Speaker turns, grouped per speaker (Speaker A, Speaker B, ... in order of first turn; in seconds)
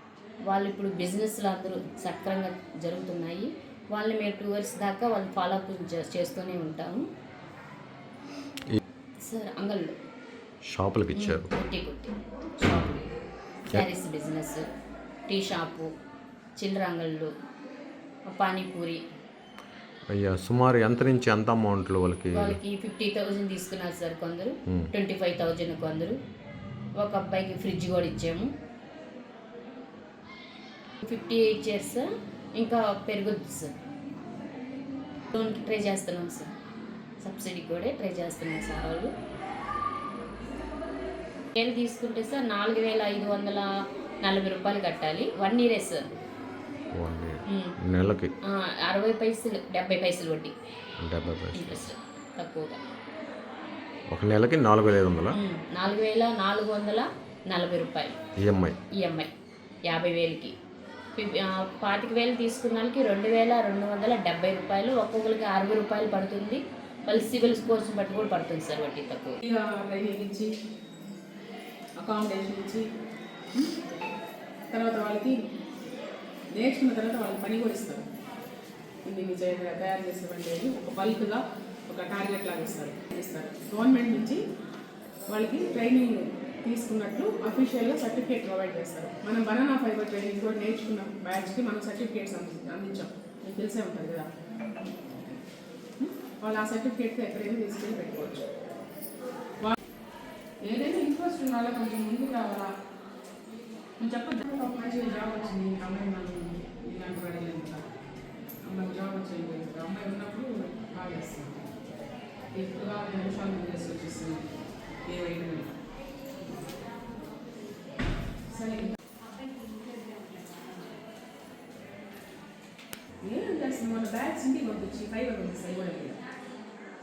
Speaker A: 0.5-7.0, 9.2-9.9, 11.2-13.1, 13.7-14.6, 15.3-15.9, 16.6-17.3, 18.3-19.0, 22.3-26.1, 27.0-28.5, 31.0-32.1, 32.6-33.7, 35.3-36.5, 37.2-39.1, 41.5-43.7, 44.2-46.0, 47.5-47.7, 48.9-50.5, 51.6-52.8, 55.3-58.1, 59.0-59.3, 59.9-60.5, 61.2-69.4
Speaker B: 10.6-11.5, 12.6-13.0, 20.1-22.6, 47.0-48.3, 51.0-51.9, 54.1-55.4, 58.4-58.8
Speaker C: 69.4-70.5, 72.0-72.8, 73.5-73.8, 74.7-75.3, 76.5-78.0, 79.0-84.4, 85.3-94.3, 96.0-98.4, 100.6-102.7, 104.0-107.8, 108.7-111.6, 112.5-114.5, 115.1-115.7, 118.5-119.0, 123.2-126.2